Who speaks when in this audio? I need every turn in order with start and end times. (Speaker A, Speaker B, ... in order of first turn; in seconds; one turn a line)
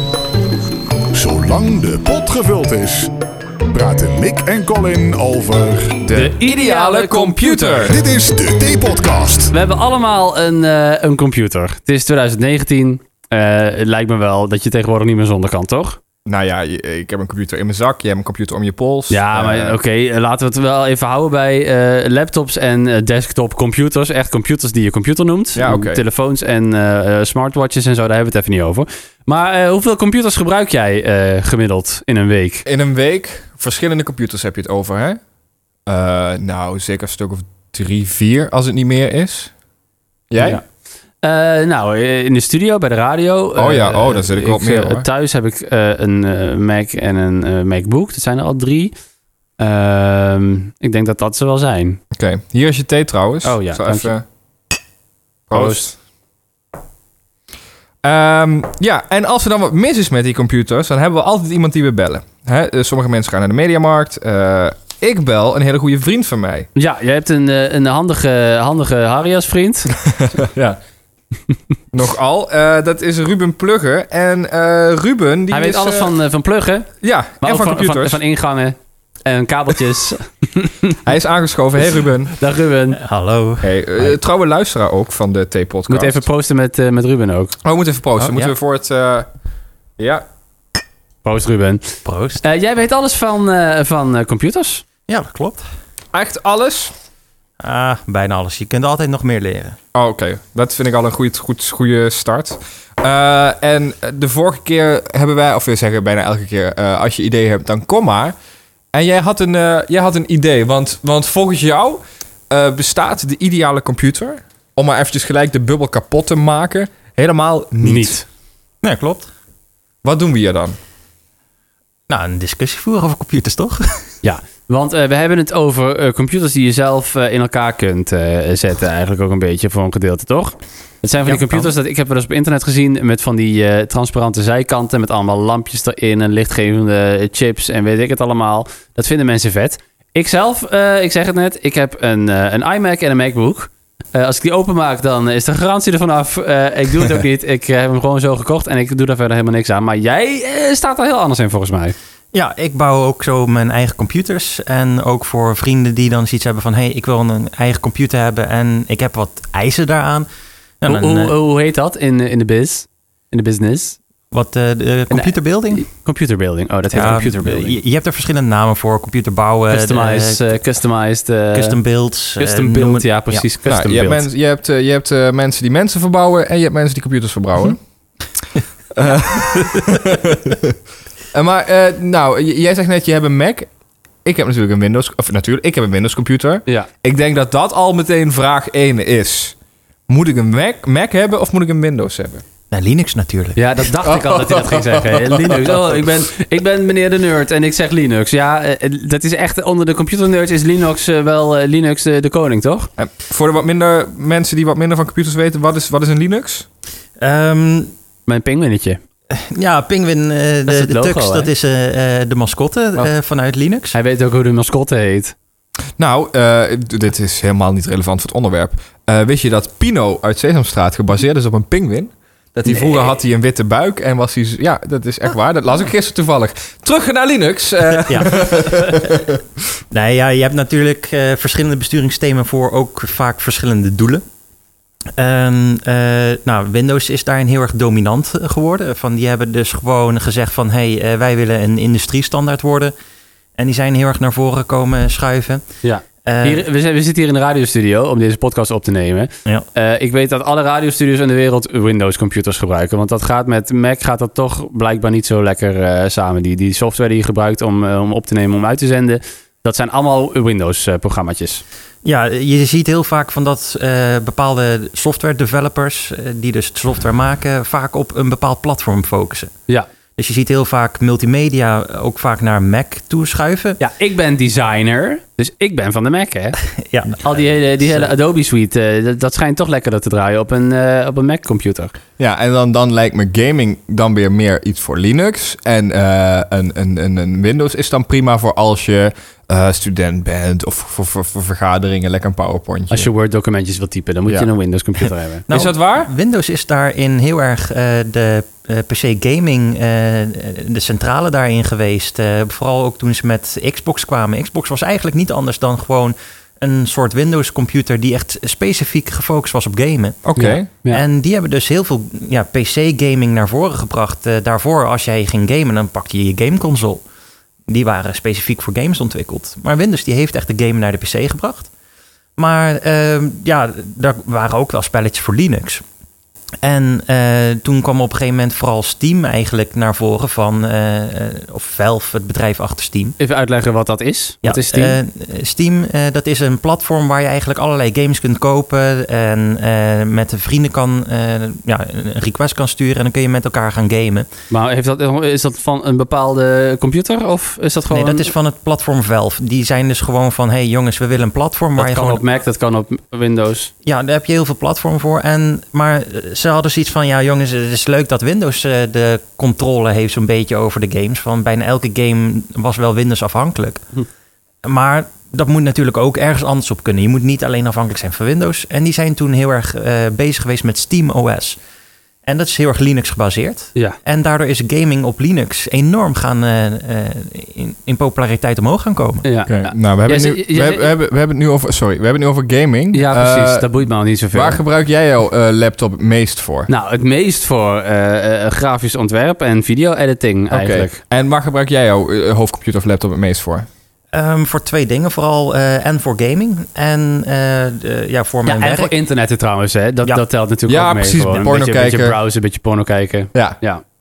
Speaker A: 1.1-3.1
Speaker A: 3.7-6.3
Speaker B: 6.2-7.9
Speaker C: 6.4-8.0
Speaker A: 7.9-9.5
Speaker B: 9.5-16.0
Speaker C: 16.3-19.8
Speaker B: 19.1-32.6
Speaker C: 25.6-26.0
Speaker C: 32.6-35.2
Speaker C: 35.9-39.5
Speaker C: 40.3-40.6
Speaker B: 41.2-48.9
Speaker C: 43.6-45.1
Speaker B: 49.6-52.0
Speaker C: 52.1-54.2
Speaker B: 53.4-54.1
Speaker C: 55.5-55.9
Speaker B: 55.5-55.9
Speaker C: 58.0-66.7
Speaker B: 66.8-70.0
Speaker C: 70.0-70.8
Speaker C: 71.9-76.1
Speaker B: 75.5-81.0
Speaker C: 77.0-78.2
Speaker C: 81.0-82.3
Speaker B: 82.0-83.0
Speaker D: 83.0-84.1
Speaker C: 83.6-86.2
Speaker B: 85.9-87.6
Speaker C: 87.6-89.3
Speaker D: 88.2-88.5
Speaker C: 90.0-90.2
Speaker B: 91.2-94.8
Speaker D: 92.0-92.4
Speaker D: 95.1-95.6
Speaker C: 96.1-96.9
Speaker D: 97.6-99.8
Speaker C: 99.9-108.3
Speaker C: 108.9-118.2
Speaker B: 117.8-118.2
Speaker D: 118.8-119.3
Speaker C: 120.0-120.8
Speaker D: 122.1-124.2
Speaker B: 124.2-151.9
Speaker D: 131.2-131.7
Speaker D: 152.3-160.3
Speaker D: 160.8-161.3
Speaker B: 160.9-164.0
Speaker D: 164.3-165.8
Speaker B: 165.1-167.8
Speaker D: 166.9-170.4
Speaker B: 169.7-171.8
Speaker D: 171.5-173.4
Speaker B: 172.4-174.3
Speaker C: 173.7-177.8
Speaker C: 178.9-180.8
Speaker D: 179.5-180.0
Speaker C: 181.3-183.7
Speaker C: 184.2-189.6
Speaker C: 190.1-192.4
Speaker D: 192.7-193.6
Speaker B: 193.6-202.9
Speaker C: 194.0-195.9
Speaker C: 203.0-206.7
Speaker D: 207.2-207.9
Speaker B: 208.3-209.0
Speaker D: 209.3-214.0
Speaker B: 210.7-211.5
Speaker B: 213.9-215.3
Speaker C: 216.0-229.4
Speaker B: 222.7-223.1
Speaker D: 228.1-229.1
Speaker D: 229.9-234.2
Speaker D: 235.2-242.9
Speaker D: 243.6-245.6
Speaker B: 245.8-261.6
Speaker D: 246.2-246.6
Speaker D: 262.0-269.5
Speaker D: 270.2-273.8
Speaker B: 273.8-276.6
Speaker D: 276.8-277.4
Speaker B: 277.2-281.9
Speaker C: 282.2-293.1
Speaker B: 292.9-295.4
Speaker D: 295.5-310.2
Speaker C: 295.5-296.1
Speaker C: 310.2-310.7
Speaker B: 310.4-311.0
Speaker D: 310.9-317.0
Speaker D: 317.7-321.7
Speaker D: 322.4-325.8
Speaker D: 326.6-333.1
Speaker B: 333.2-335.0
Speaker D: 334.4-344.3
Speaker B: 344.5-348.3
Speaker D: 347.9-352.2
Speaker B: 351.8-353.7
Speaker D: 353.9-363.8
Speaker D: 364.6-371.6
Speaker D: 372.3-379.2
Speaker B: 379.2-380.9
Speaker C: 379.5-383.7
Speaker B: 382.9-384.6
Speaker C: 384.3-386.7
Speaker B: 386.7-391.0
Speaker C: 390.5-393.7
Speaker D: 394.1-398.9
Speaker B: 398.5-403.8
Speaker C: 400.7-402.2